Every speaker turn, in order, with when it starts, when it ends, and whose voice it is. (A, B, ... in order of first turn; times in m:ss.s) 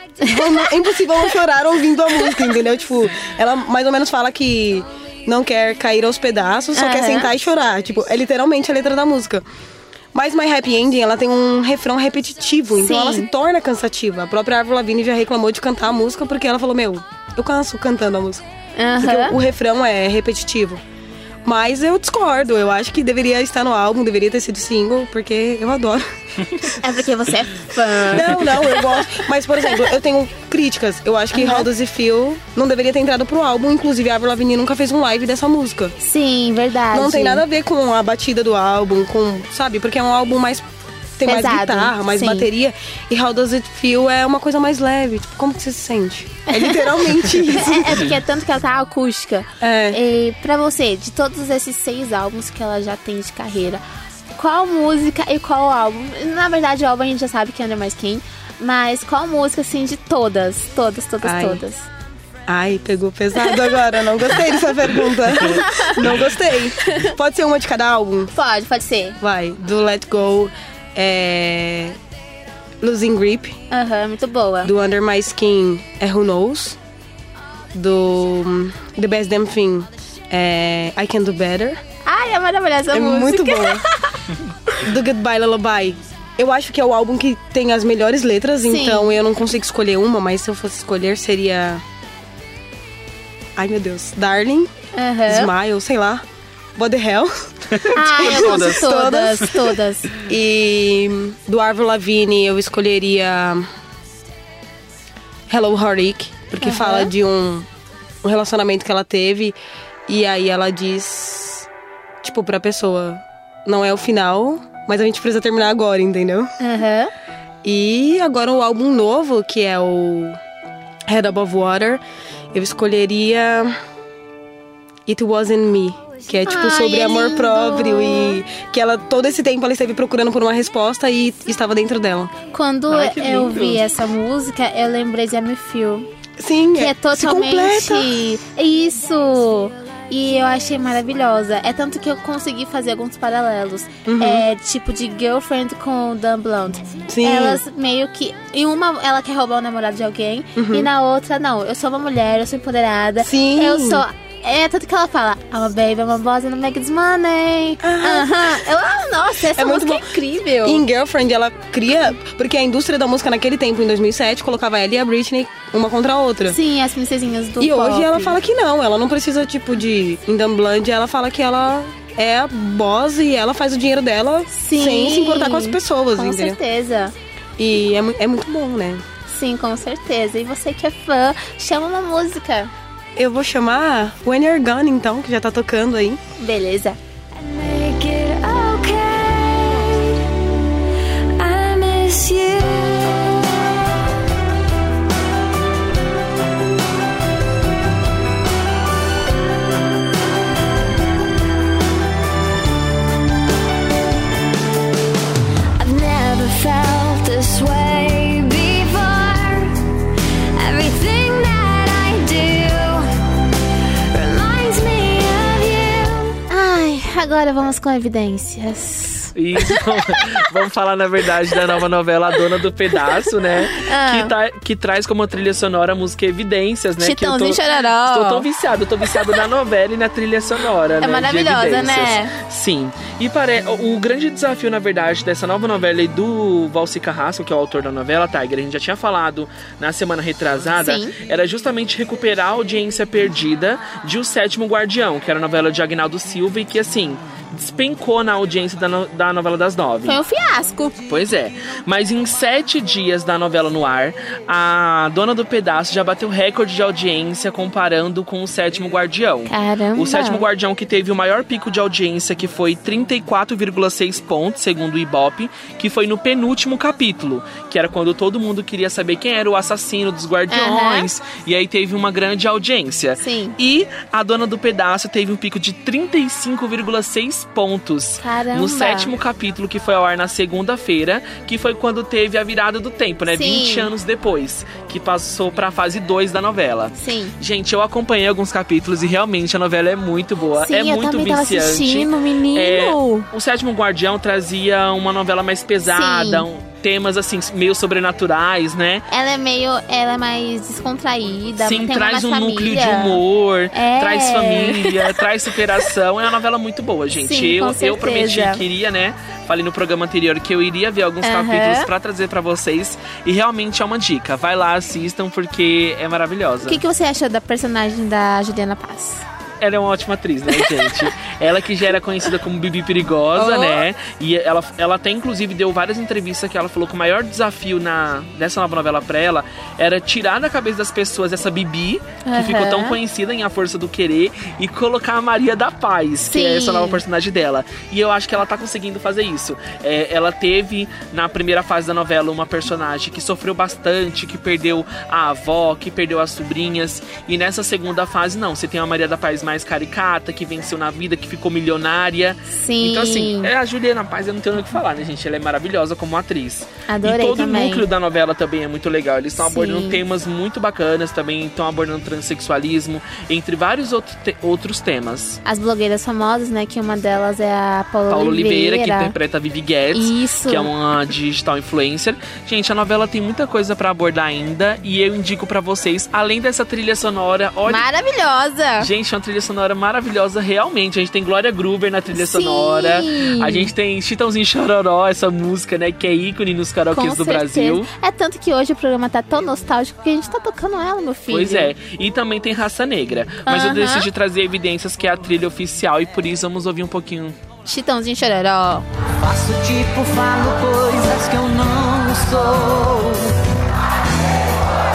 0:00.2-0:09.4 A
0:06.8-0:07.3 B
0:10.1-0:18.4 A
0:12.8-0:13.3 B
0:18.8-0:19.4 B
0:19.0-0:20.8 A
0:21.4-0:26.1 A
0:26.8-0:29.8 B
0:28.1-0:35.9 A
0:31.3-0:31.7 B
0:36.0-0:37.4 B
0:36.9-0:40.7 A
0:41.2-0:48.1 A
0:41.2-0:42.5 B
0:46.5-0:46.9 B
0:47.5-0:53.8 B
0:49.6-0:50.0 A
0:54.4-1:01.8 B
1:01.2-1:01.6 A
1:02.5-1:08.3 A
1:03.4-1:03.7 B
1:05.4-1:06.0 B
1:06.8-1:07.1 B
1:08.3-1:09.2 B
1:09.2-1:12.0 A
1:12.8-1:13.6 A
1:13.7-1:14.7 B
1:14.6-1:16.8 A
1:17.7-1:21.8 A
1:22.1-1:24.2 B
1:22.9-1:23.8 A
1:24.8-1:31.8 A
1:28.6-1:29.2 B
1:33.6-1:34.7 A
1:35.0-1:35.5 B
1:35.3-1:36.2 A
1:36.8-1:39.6 A
1:37.9-1:40.1 B
1:38.3-1:38.8 C
1:40.3-1:43.7 A
1:45.5-1:47.7 A
1:46.6-1:47.1 B
1:48.2-1:49.6 A
1:50.1-1:51.7 A
1:52.2-1:56.5 A
1:56.6-1:57.1 B
1:57.6-2:00.4 A
2:01.1-2:02.0 A
2:02.5-2:03.8 A
2:05.1-2:12.3 A
2:06.4-2:08.4 B
2:12.5-2:16.1 B
2:12.9-2:13.8 C
2:16.4-2:18.1 A
2:16.8-2:40.8 B
2:24.1-2:24.4 A
2:27.1-2:27.6 A
2:30.6-2:30.9 A
2:33.2-2:34.0 A
2:37.8-2:38.5 A
2:39.6-2:40.0 A
2:40.7-2:46.6 A
2:46.5-2:48.4 B
2:47.6-2:56.6 A
2:54.5-2:57.1 B
2:57.6-2:59.0 A
2:59.3-3:02.7 B
3:03.2-3:06.2 A
3:06.4-3:07.0 B
3:07.4-3:09.9 D
3:11.4-3:12.9 D
3:25.9-3:29.6 D
3:30.6-3:33.0 D
3:34.3-3:36.2 D
3:36.5-3:40.3 B
3:39.4-4:10.2 C
3:43.7-3:44.3 B
3:47.0-3:48.4 B
3:51.0-3:52.3 B
4:00.8-4:01.1 B
4:10.0-4:11.0 B
4:11.1-4:59.0 C
4:19.5-4:20.4 B
4:30.5-4:31.1 B
4:33.2-4:33.6 B
4:38.2-4:39.1 B
4:43.3-4:43.9 B
4:47.0-4:47.3 B
4:50.6-4:53.3 B
4:55.8-4:56.5 B
4:59.1-5:03.2 B
5:01.6-5:16.8 C
5:03.7-5:05.2 B
5:07.2-5:08.6 B
5:11.2-5:11.9 B
5:16.6-5:19.2 B
5:19.6-6:05.4 C
5:20.6-5:20.9 B
5:23.4-5:23.8 B
5:32.3-5:33.0 B
5:36.2-5:37.0 B
5:52.5-5:53.5 B
5:56.9-5:57.8 B
5:59.4-6:00.0 B
6:05.4-6:09.1 B
6:08.1-6:17.8 C
6:10.0-6:10.7 B
6:17.7-6:18.9 B
6:18.8-6:27.9 C
6:22.1-6:23.7 B
6:26.9-6:31.7 B
6:31.3-6:37.4 C
6:33.5-6:34.1 B
6:37.7-6:38.8 B
6:39.2-6:43.2 E